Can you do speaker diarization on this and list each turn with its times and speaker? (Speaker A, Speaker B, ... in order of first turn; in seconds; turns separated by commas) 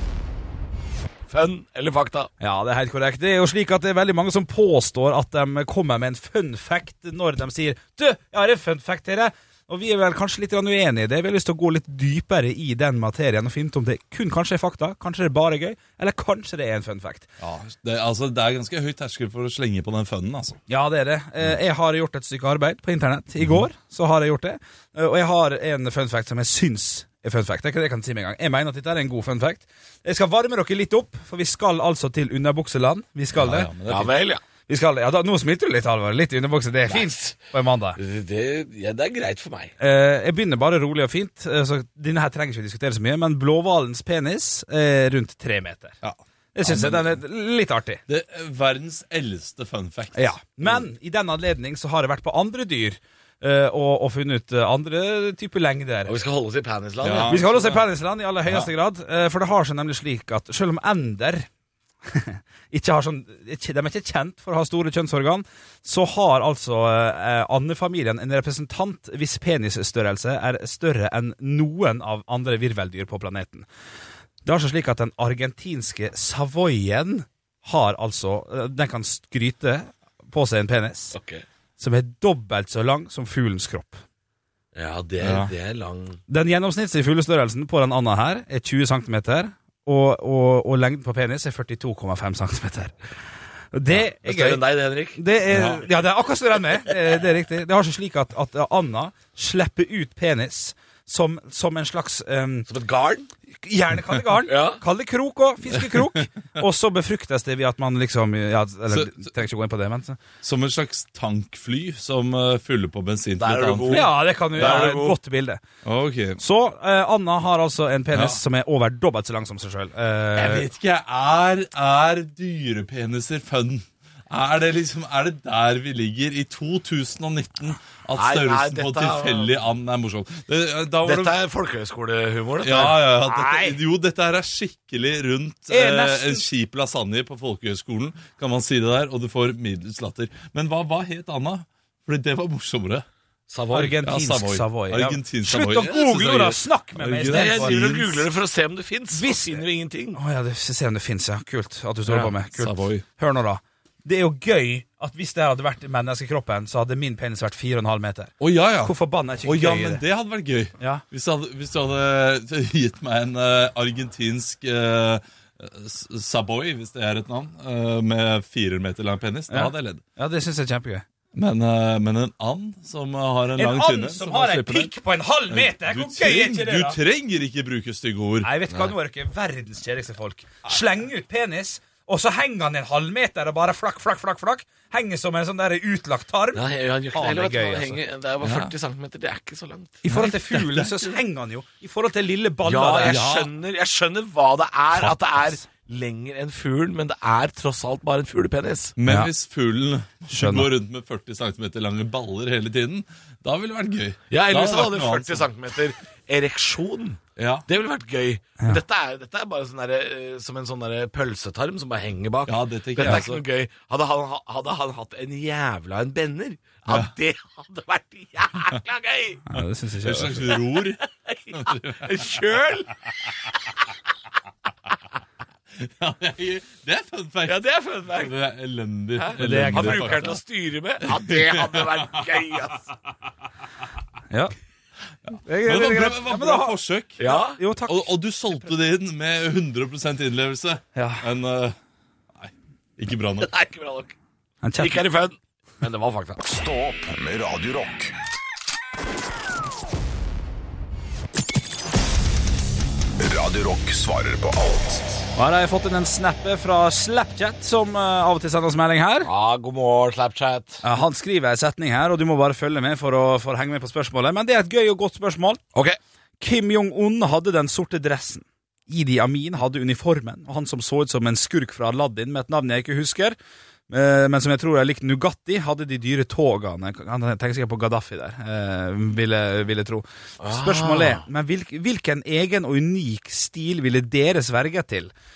Speaker A: 1.3-2.3, Speaker B: 2.4-17.3, Speaker C: 17.4-20.6, Speaker B: 20.7-33.7, Speaker C: 33.3-34.1, Speaker A: 33.9-34.4, Speaker B: 34.7-38.0, Speaker A: 36.9-37.3, Speaker A: 38.0-39.7, Speaker B: 39.8-46.0, Speaker C: 46.0-47.1, Speaker B: 46.5-48.0, Speaker C: 48.1-50.3, Speaker B: 50.1-56.2, Speaker A: 56.1-57.4, Speaker C: 57.0-57.8, Speaker B: 57.2-61.5, Speaker B: 62.1-73.7, Speaker B: 74.4-81.2, Speaker A: 81.1-81.4, Speaker B: 81.8-84.0, Speaker A: 84.7-86.2, Speaker C: 85.2-85.5, Speaker B: 86.3-92.9, Speaker B: 93.7-102.7, Speaker A: 93.9-95.2, Speaker C: 95.5-95.8, Speaker A: 102.7-103.3, Speaker B: 103.6-110.2, Speaker A: 104.5-104.8, Speaker C: 108.9-109.3, Speaker C: 110.4-115.2, Speaker A: 113.4-115.1, Speaker B: 113.9-115.6, Speaker C: 115.8-116.4, Speaker B: 116.4-120.7, Speaker C: 118.1-118.4, Speaker C: 120.3-131.3, Speaker A: 128.2-129.6, Speaker A: 131.0-133.0, Speaker C: 132.6-143.1, Speaker B: 133.2-133.8, Speaker B: 135.7-136.4, Speaker A: 143.5-144.0, Speaker B: 143.7-147.8, Speaker C: 144.0-148.3, Speaker A: 147.3-150.2, Speaker B: 149.1-160.0, Speaker C: 152.5-153.0, Speaker C: 158.4-170.0, Speaker B: 160.8-161.0, Speaker B: 169.5-171.0, Speaker C: 171.3-174.9, Speaker B: 173.6-177.0, Speaker C: 175.5-178.5, Speaker B: 178.4-188.0, Speaker A: 186.5-190.0, Speaker C: 188.4-188.7, Speaker B: 190.0-193.2, Speaker C: 190.1-191.1, Speaker A: 192.6-198.9, Speaker C: 193.0-193.5, Speaker B: 194.9-195.6, Speaker C: 199.0-205.5, Speaker B: 199.1-199.3, Speaker B: 200.3-200.7, Speaker A: 204.3-219.4, Speaker C: 207.4-207.7, Speaker C: 212.4-213.4, Speaker C: 216.9-217.1, Speaker B: 219.5-220.5, Speaker C: 220.0-222.1, Speaker A: 220.8-223.1, Speaker C: 225.8-230.4, Speaker A: 227.4-228.4, Speaker A: 229.2-232.9, Speaker B: 229.3-230.4, Speaker C: 231.1-232.4, Speaker C: 235.3-237.2, Speaker B: 235.4-238.1, Speaker A: 237.2-237.6, Speaker C: 237.8-241.8, Speaker B: 240.9-241.2, Speaker C: 242.3-243.5, Speaker A: 243.4-244.1, Speaker B: 244.6-245.1, Speaker A: 244.8-246.4, Speaker D: 246.4-248.1, Speaker D: 253.2-255.2, Speaker B: 255.3-259.3, Speaker A: 259.2-260.8, Speaker B: 260.8-265.6, Speaker B: 266.4-273.4, Speaker B: 273.9-285.1, Speaker A: 280.4-281.2